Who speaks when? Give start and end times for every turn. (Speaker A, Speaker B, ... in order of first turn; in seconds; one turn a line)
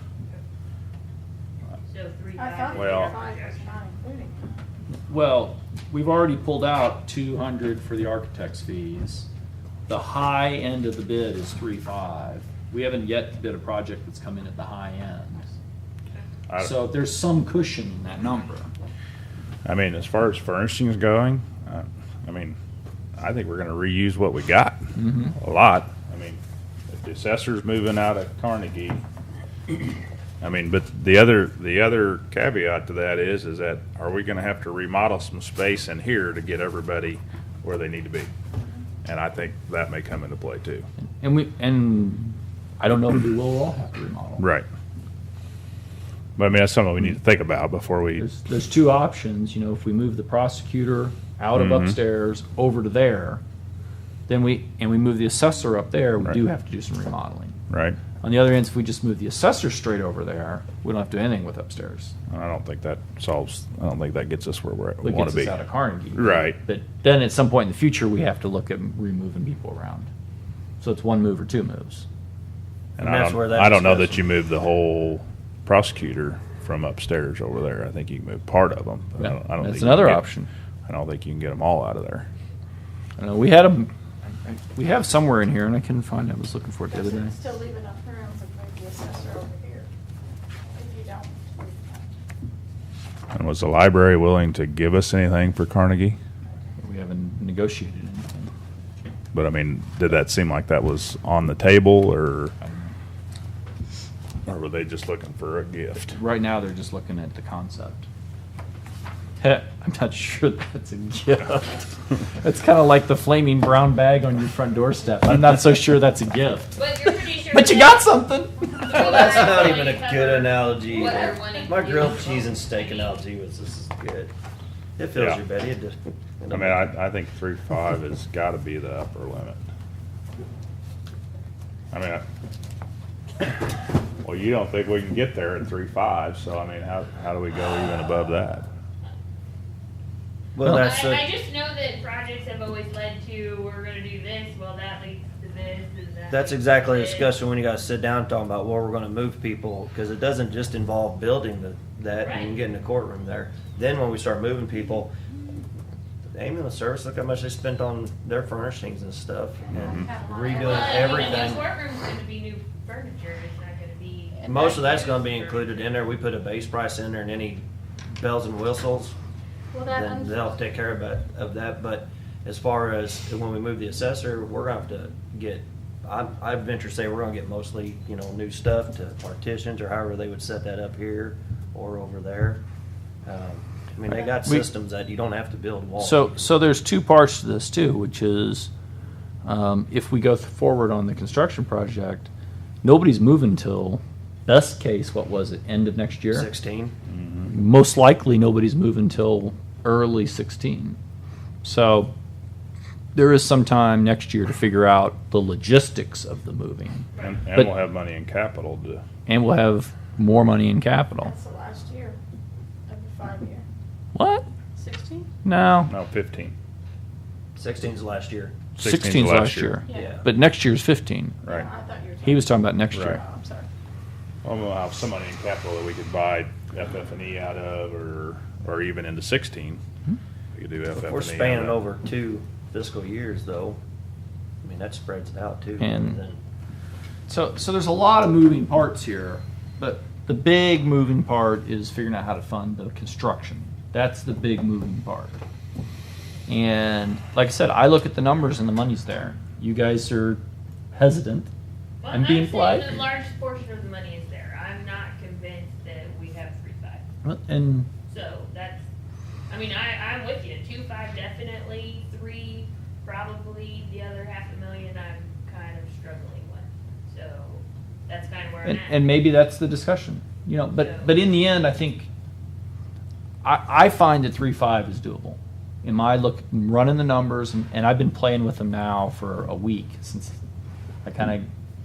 Speaker A: 1.9-3.7
Speaker B: 2.4-4.5
Speaker C: 2.7-3.1
Speaker D: 5.1-9.3
Speaker D: 9.9-15.5
Speaker C: 16.5-16.8
Speaker D: 16.6-18.7
Speaker C: 19.6-22.6
Speaker C: 23.2-29.0
Speaker D: 25.0-25.3
Speaker C: 30.4-38.3
Speaker C: 39.0-40.8
Speaker D: 41.2-44.5
Speaker C: 44.4-44.7
Speaker C: 46.4-48.3
Speaker D: 48.2-53.4
Speaker C: 51.5-52.0
Speaker D: 54.3-57.6
Speaker C: 57.7-58.0
Speaker D: 58.2-62.1
Speaker C: 62.3-65.5
Speaker D: 65.0-70.1
Speaker C: 66.1-66.6
Speaker D: 70.8-72.0
Speaker C: 73.0-80.3
Speaker E: 73.0-74.2
Speaker D: 79.2-80.5
Speaker C: 80.8-82.3
Speaker D: 83.2-87.4
Speaker B: 86.9-89.9
Speaker B: 90.7-92.1
Speaker C: 93.3-96.2
Speaker D: 96.8-98.5
Speaker C: 99.3-102.5
Speaker D: 102.6-102.9
Speaker C: 104.5-106.2
Speaker D: 106.1-108.1
Speaker D: 109.4-119.8
Speaker A: 116.7-118.1
Speaker A: 118.8-123.2
Speaker E: 118.9-124.3
Speaker E: 125.0-126.8
Speaker C: 126.5-129.6
Speaker C: 131.9-132.2
Speaker C: 134.2-138.7
Speaker E: 140.6-141.2
Speaker D: 140.6-140.9
Speaker A: 140.7-147.3
Speaker E: 146.3-155.1
Speaker A: 152.2-152.6
Speaker E: 156.3-161.7
Speaker C: 159.7-160.1
Speaker B: 159.7-161.6
Speaker A: 160.5-166.0
Speaker E: 164.4-169.2
Speaker B: 169.7-170.5
Speaker E: 169.8-182.6
Speaker E: 183.2-186.6
Speaker D: 186.0-188.7
Speaker D: 189.4-192.3
Speaker D: 192.8-196.5
Speaker E: 196.3-196.9
Speaker C: 197.1-197.5
Speaker D: 197.5-201.0
Speaker D: 201.6-202.1
Speaker D: 203.1-207.7
Speaker C: 207.2-209.0
Speaker D: 209.3-211.3
Speaker B: 211.2-212.2
Speaker B: 212.9-213.6
Speaker D: 214.1-214.4
Speaker B: 214.8-215.3
Speaker D: 215.4-215.9
Speaker C: 215.9-216.5
Speaker E: 217.6-218.6
Speaker C: 218.8-219.8
Speaker D: 218.8-221.4
Speaker B: 219.8-220.1
Speaker E: 219.9-220.2
Speaker B: 221.4-223.7
Speaker D: 222.2-223.2
Speaker C: 222.9-223.2
Speaker C: 224.4-229.8
Speaker C: 230.5-231.8
Speaker E: 230.9-233.8
Speaker E: 234.6-236.4
Speaker D: 235.8-236.2
Speaker D: 237.3-245.4
Speaker D: 246.5-250.4
Speaker D: 250.9-251.5
Speaker A: 252.0-257.1
Speaker D: 252.1-253.0
Speaker D: 257.2-257.9
Speaker A: 258.1-258.9
Speaker A: 259.5-269.1
Speaker D: 268.6-272.1
Speaker A: 270.7-271.1
Speaker D: 273.4-280.4
Speaker D: 281.0-281.5